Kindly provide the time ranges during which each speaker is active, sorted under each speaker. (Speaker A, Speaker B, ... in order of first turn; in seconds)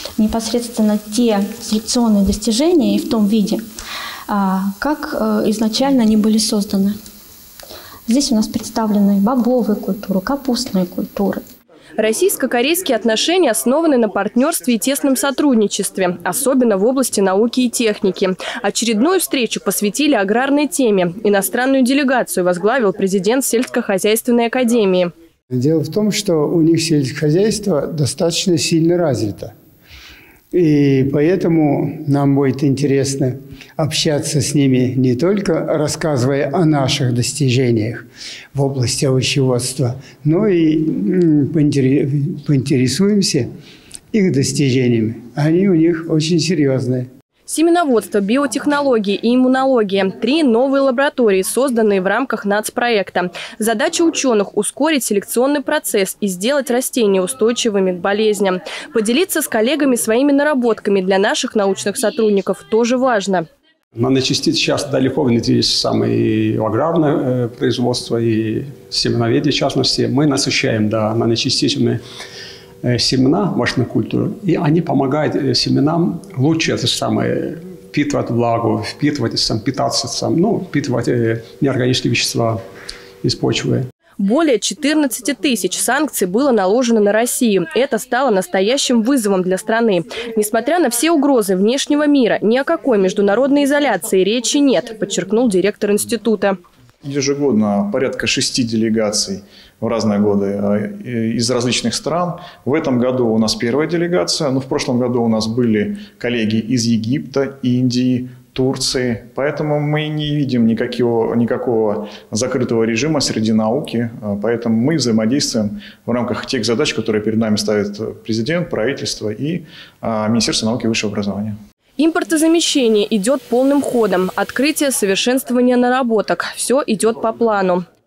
Speaker A: 0.2-3.6, 4.3-7.0, 8.1-11.4
Speaker B: 12.0-25.1, 47.5-63.5, 84.2-96.6, 122.0-127.8
Speaker C: 25.5-29.5, 30.5-43.5, 44.1-47.1
Speaker D: 64.0-72.0, 72.8-82.6, 83.2-83.9
Speaker E: 97.0-121.6